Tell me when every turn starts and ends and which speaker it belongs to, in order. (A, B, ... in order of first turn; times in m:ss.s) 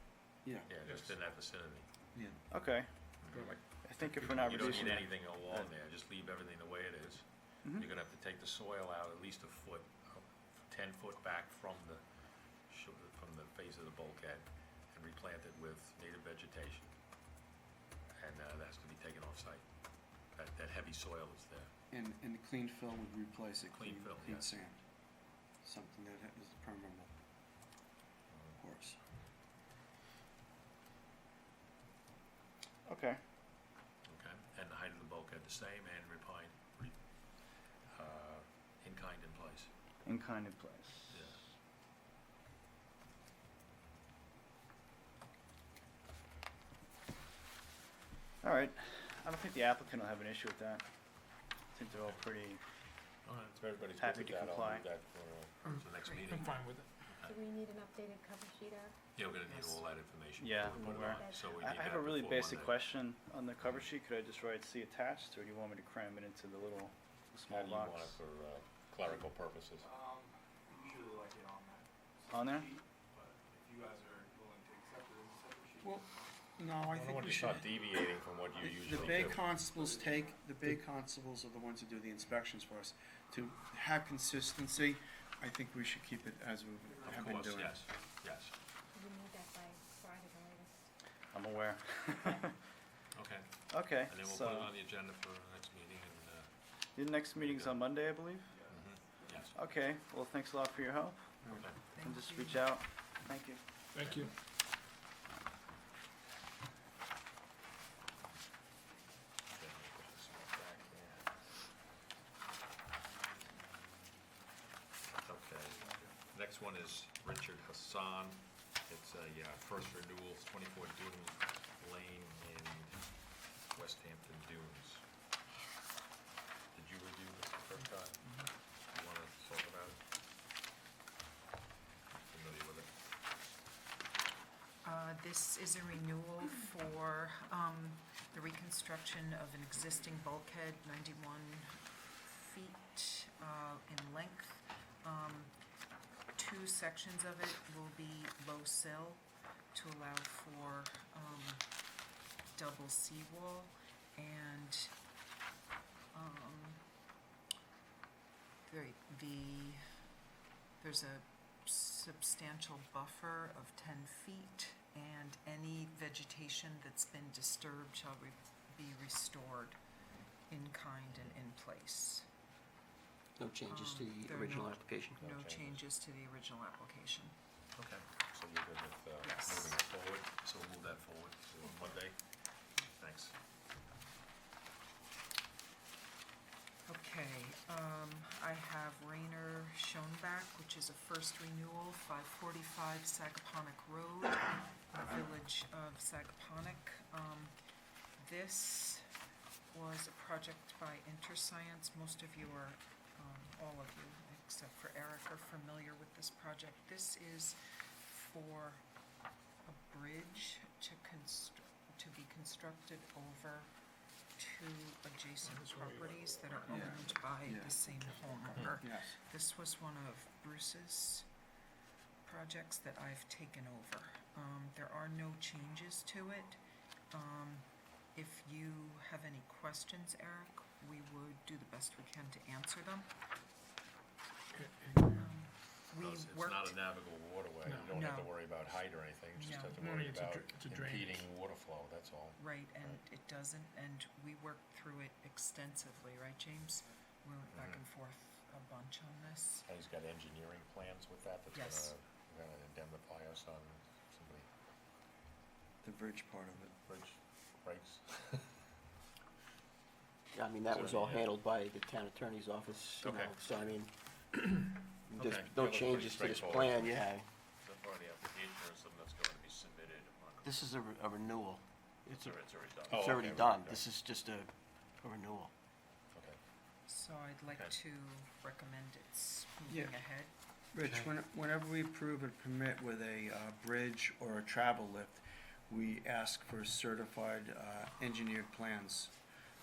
0:00.4-0:00.7 A
0:00.6-0:02.2 B
0:00.8-0:01.2 C
0:02.1-0:02.4 A
0:02.5-0:05.7 D
0:03.2-0:12.0 B
0:03.3-0:05.0 C
0:12.6-0:17.0 B
0:18.2-0:21.7 B
0:21.9-0:24.8 A
0:23.7-0:24.6 B
0:25.6-0:27.1 A
0:28.3-0:28.6 B
0:28.6-0:29.0 A
0:32.8-0:33.2 D
0:34.1-0:39.7 B
0:40.0-0:41.4 D
0:41.1-0:41.5 B
0:48.4-0:52.6 D
0:53.2-0:56.6 B
0:54.0-0:54.9 D
0:55.6-0:57.1 C
0:56.0-0:56.4 E
0:57.1-0:57.4 B
0:57.2-0:59.0 F
0:59.2-1:02.8 B
0:59.5-0:59.8 E
1:00.4-1:08.2 D
1:00.8-1:01.5 F
1:03.6-1:03.9 B
1:07.5-1:09.9 B
1:09.9-1:10.2 G
1:10.7-1:16.0 G
1:12.3-1:12.7 D
1:14.5-1:14.8 H
1:15.8-1:17.9 A
1:16.9-1:19.4 B
1:18.6-1:27.9 A
1:19.8-1:20.1 G
1:27.0-1:28.5 B
1:28.9-1:30.9 F
1:31.3-1:32.6 D
1:33.1-1:36.7 B
1:33.7-1:34.7 D
1:36.9-1:38.5 D
1:37.3-1:37.9 B
1:38.6-1:38.9 G
1:38.7-1:39.5 B
1:39.5-1:43.6 D
1:41.4-1:41.7 A
1:41.6-1:41.9 B
1:41.9-1:42.7 E
1:43.9-1:44.3 C
1:44.0-1:44.3 B
1:49.5-1:51.3 B
1:55.2-2:05.0 B
2:06.7-2:10.0 B
2:12.1-2:12.9 B
2:14.8-2:25.5 E
2:26.4-2:31.6 E
2:32.5-2:34.9 E
2:36.1-2:36.8 E
2:38.6-2:39.8 E
2:40.8-2:49.8 E
2:50.5-2:52.3 E
2:53.4-2:55.3 H
2:53.7-2:57.3 E
2:55.2-2:55.8 B
2:57.7-3:03.3 B
2:59.2-2:59.8 E
3:06.9-3:17.5 E
3:18.2-3:19.0 E
3:19.7-3:28.8 E
3:29.6-3:33.7 E
3:34.4-3:41.3 E
3:35.4-3:36.7 C
3:36.7-3:39.2 A
3:42.2-3:46.6 E
3:47.1-3:53.1 E
3:54.5-3:55.4 C
3:55.0-3:56.8 E
3:56.0-4:03.0 B
3:57.6-3:57.9 C
3:57.9-3:58.7 E
3:59.3-3:59.8 E
3:59.7-4:01.3 C
4:02.4-4:09.7 E
4:07.5-4:07.8 B
4:09.6-4:14.5 B
4:11.5-4:11.9 E
4:15.8-4:16.7 A
4:16.7-4:18.6 B
4:20.3-4:27.2 H
4:20.7-4:21.3 B
4:23.0-4:23.5 B
4:25.1-4:27.1 B
4:27.6-4:30.7 B
4:30.4-4:35.5 H
4:32.1-4:33.9 B
4:36.8-4:40.3 E
4:39.7-4:39.9 A
4:40.7-4:49.1 A